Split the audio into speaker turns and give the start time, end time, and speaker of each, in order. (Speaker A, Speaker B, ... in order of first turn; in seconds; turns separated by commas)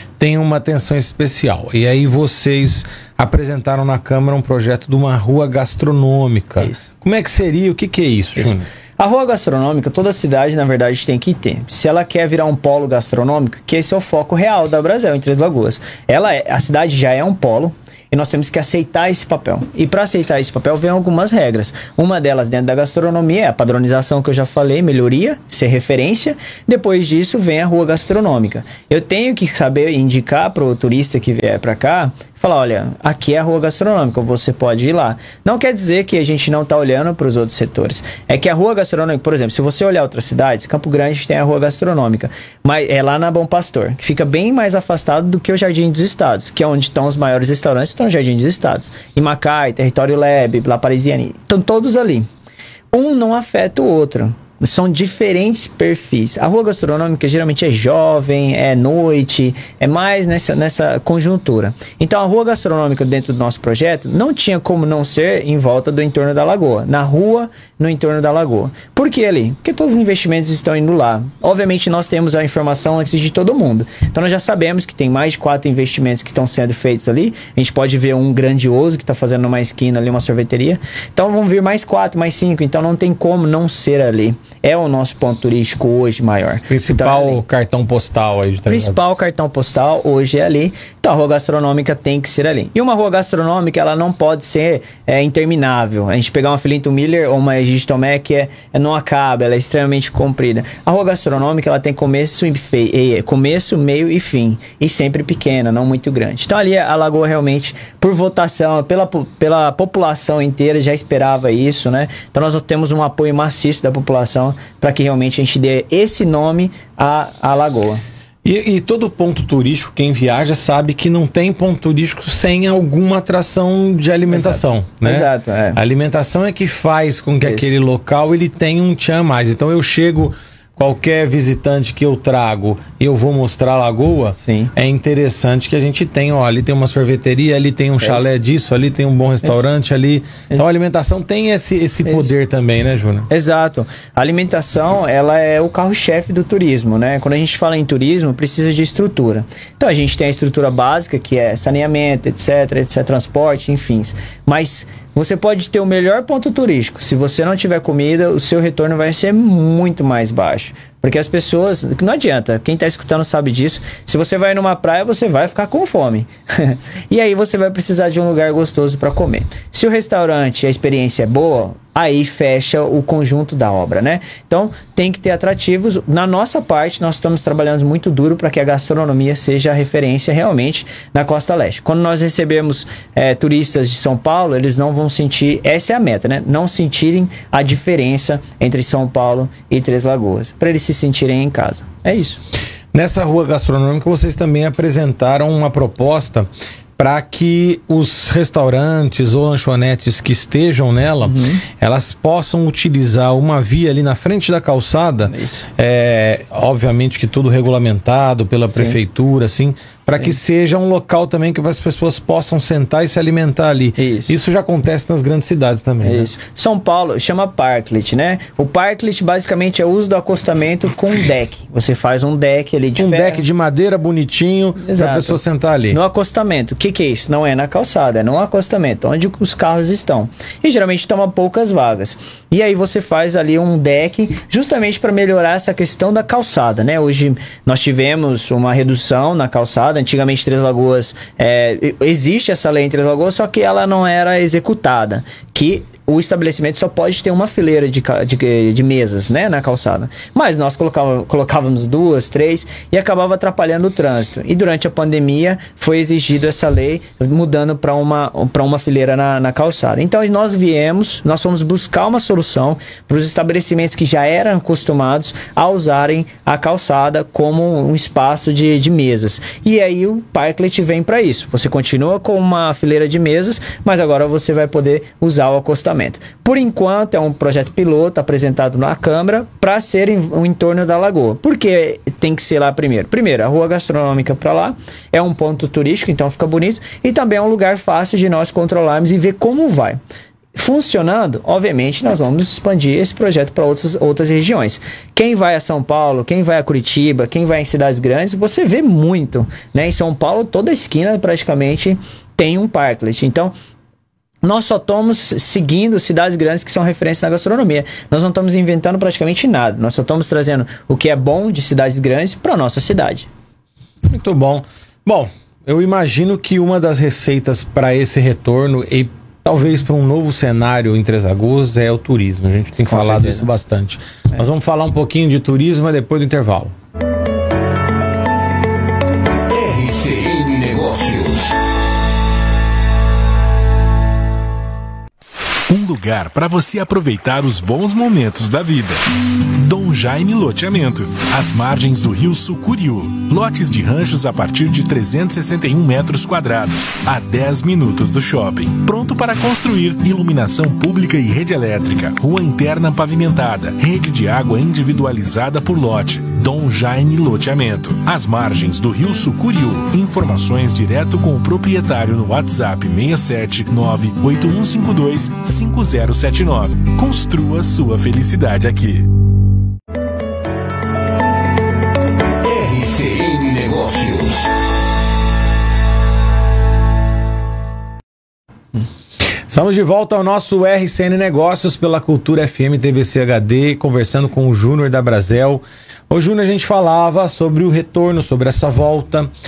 Speaker A: 0.2-8.7, Speaker B: 8.4-52.3, Speaker B: 52.9-87.4, Speaker A: 86.7-89.0, Speaker B: 88.7-118.0, Speaker A: 118.4-143.3, Speaker B: 124.3-125.8, Speaker B: 127.4-127.7, Speaker B: 134.4-134.7, Speaker B: 138.0-138.3, Speaker B: 142.0-142.3, Speaker B: 143.3-192.4, Speaker A: 192.9-216.3, Speaker B: 201.3-201.6, Speaker B: 205.3-205.7, Speaker B: 214.0-214.3, Speaker B: 216.0-223.4, Speaker A: 223.0-226.0, Speaker B: 224.8-225.4, Speaker B: 225.9-290.0, Speaker B: 290.5-303.5, Speaker B: 304.4-313.3, Speaker A: 314.1-326.7, Speaker B: 322.8-323.5, Speaker C: 329.5-331.5, Speaker D: 335.7-369.1, Speaker C: 372.4-374.4, Speaker A: 379.5-389.3